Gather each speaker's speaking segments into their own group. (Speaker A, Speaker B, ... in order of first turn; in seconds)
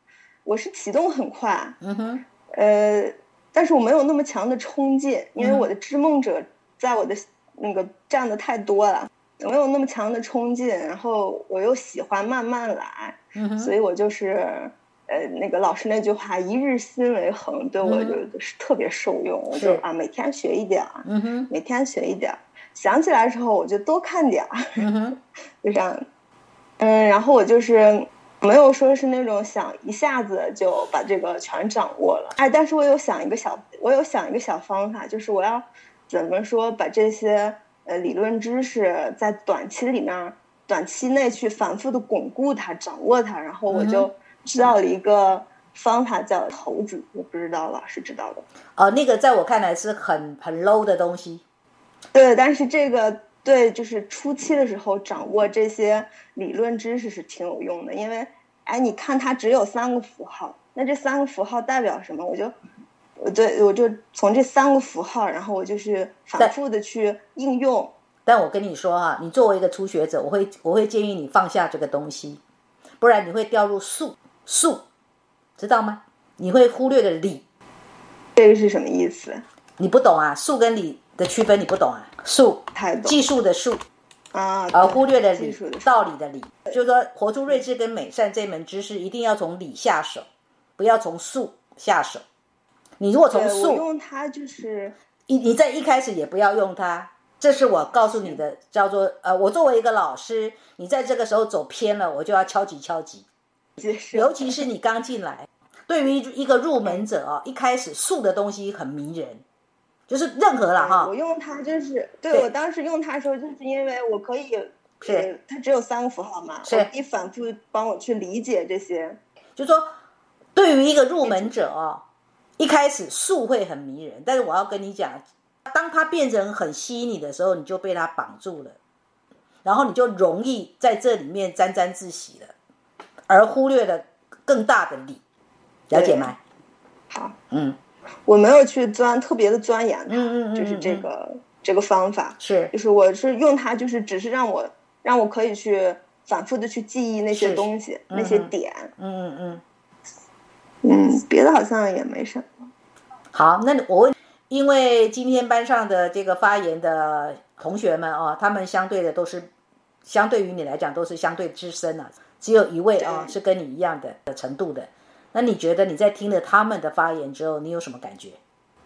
Speaker A: 0.4-1.8, 2.5-24.8, 25.6-26.0, 26.8-48.4, 52.1-62.5, 63.2-67.9, 78.3-79.4, 82.7-83.2, 84.3-86.1, 93.3-94.9, 97.7-98.4, 103.8-104.7, 110.8-119.2, 121.2-121.5, 135.9-136.3, 137.1-137.3, 138.3-148.9, 150.8-152.7, 163.0-163.3
Speaker B: 1.8-2.2, 5.4-5.7, 13.3-13.7, 17.8-18.2, 19.5-19.8, 21.0-21.5, 24.8-25.2, 43.7-44.1, 48.8-51.4, 68.2-72.4, 73.0-74.8, 75.6-77.4, 79.8-83.8, 84.7-90.2, 90.8-92.2, 93.0-93.8, 95.3-103.2, 104.1-109.4, 110.1-111.1, 115.0-115.3, 116.6-116.9, 119.5-119.9, 120.5-122.0, 122.6-128.8, 129.6-132.5, 133.3-135.2, 135.9-136.4, 137.5-137.8, 140.1-141.1, 142.4-142.7, 147.3-149.6, 153.3-159.5, 160.0-168.4